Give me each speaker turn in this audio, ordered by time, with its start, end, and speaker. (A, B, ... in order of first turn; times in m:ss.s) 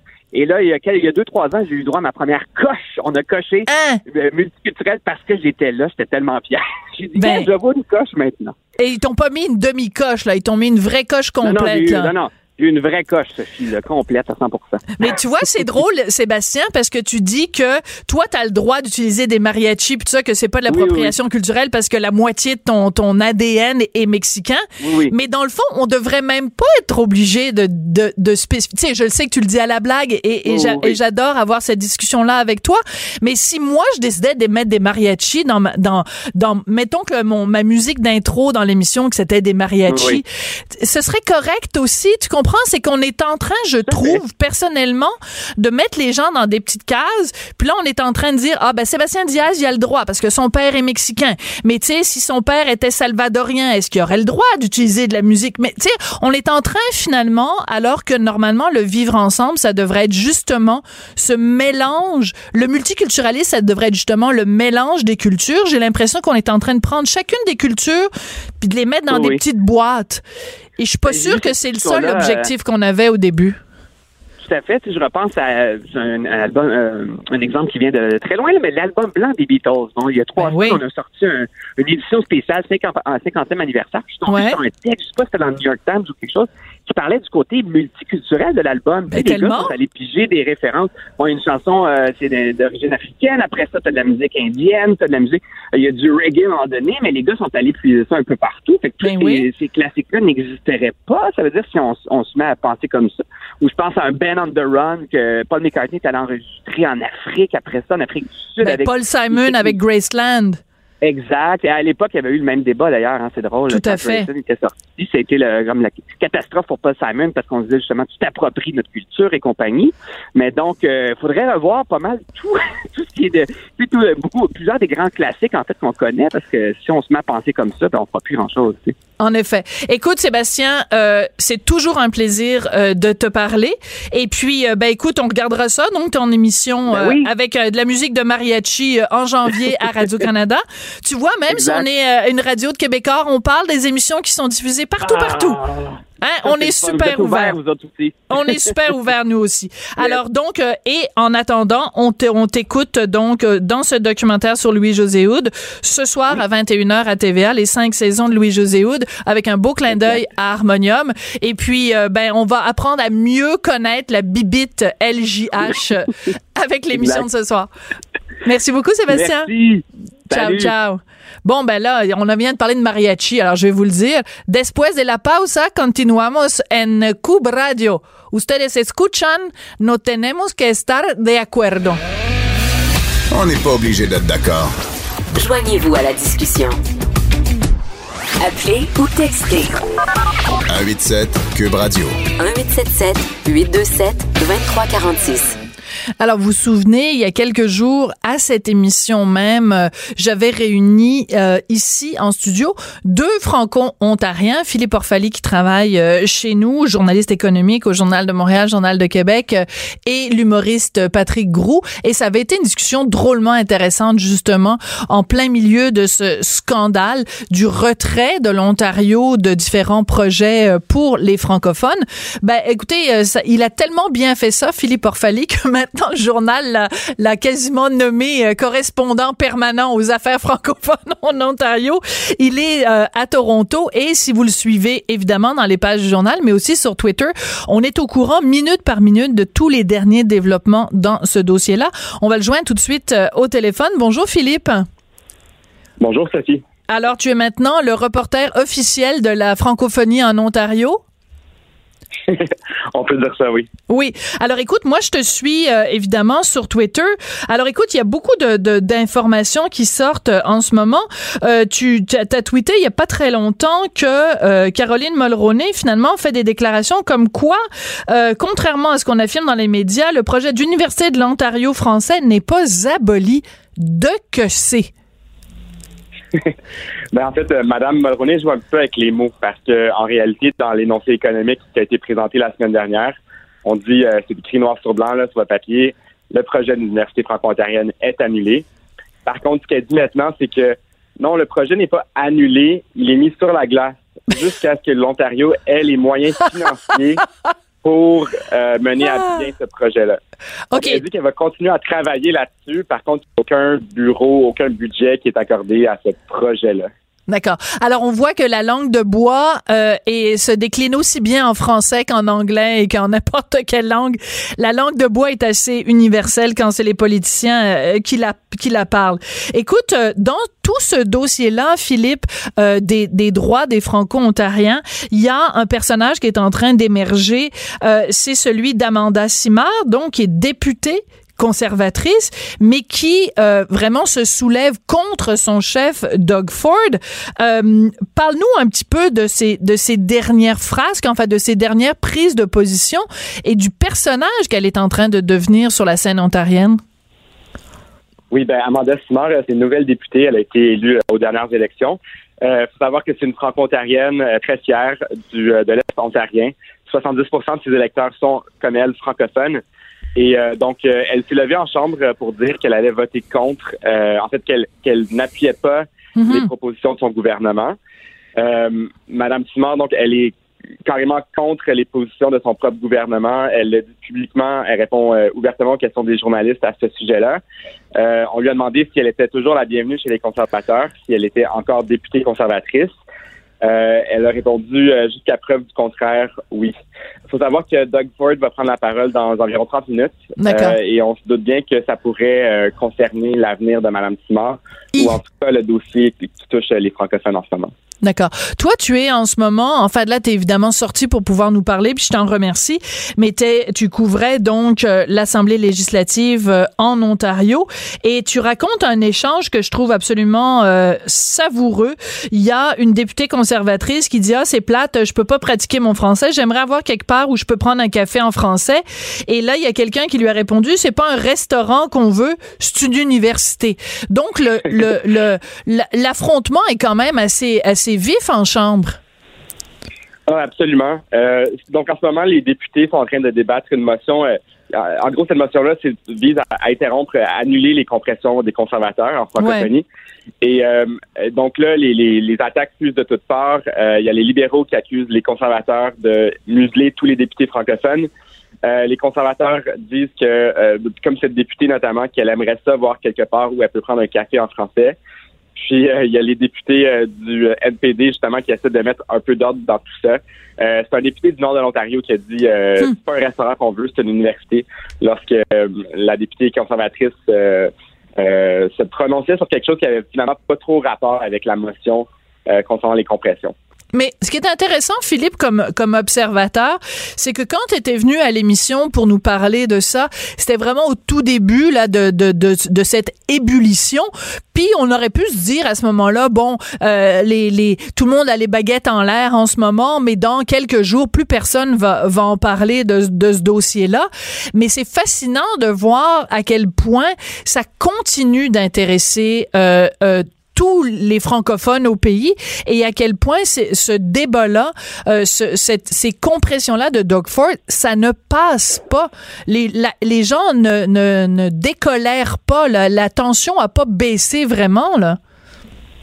0:00.3-0:08.6 A
0:03.7-0:04.0 B
0:07.2-0:07.5 B
0:08.8-0:12.1 B
0:11.4-0:14.9 A
0:15.0-1:08.1 B
0:20.7-0:21.1 A
0:24.8-0:25.1 A
0:30.5-0:31.0 A
0:39.9-0:40.2 A
0:43.9-0:44.2 A
1:08.6-1:10.2 B
1:09.1-1:09.4 A
1:10.8-1:13.6 B
1:11.1-1:12.5 A
1:14.4-1:49.8 A
1:20.4-1:20.8 B
1:24.3-1:24.6 B
1:29.1-1:29.7 B
1:39.0-1:39.5 B
1:48.6-1:50.6 B
1:51.0-2:09.0 A
1:53.7-1:54.3 B
2:09.2-2:25.6 B
2:16.9-2:17.3 A
2:21.5-2:21.9 A
2:25.0-2:28.8 A
2:26.2-2:27.6 B
2:28.3-2:47.7 B
2:39.9-2:40.2 A
2:46.9-2:47.3 A
2:48.4-2:49.5 B
2:49.1-2:50.7 A
2:50.3-3:02.0 B
3:03.3-3:04.7 C
3:05.4-3:06.8 D
3:08.4-3:09.8 D
3:10.7-3:12.2 C
3:12.4-3:15.6 D
3:16.2-4:04.9 B
4:06.0-4:06.6 E
4:06.9-4:11.0 B
4:12.3-4:13.7 E
4:13.9-4:34.9 B
4:37.1-4:48.6 E
4:49.3-4:57.2 E
4:57.8-5:00.2 E
4:59.0-4:59.4 B
5:00.7-5:01.0 B
5:00.8-5:06.9 E
5:07.3-5:46.8 B
5:48.3-5:59.6 E
6:00.2-6:07.8 E
6:06.2-6:06.5 B
6:08.4-6:10.4 E
6:10.9-6:17.4 E
6:18.0-6:23.0 E
6:23.6-6:26.8 E
6:27.3-6:37.7 E
6:30.4-6:30.8 B
6:38.0-7:09.0 B
7:10.3-7:19.9 E
7:19.4-7:19.7 B
7:20.4-7:28.1 E
7:28.6-7:35.0 E
7:35.6-7:53.6 E
7:53.9-8:35.2 B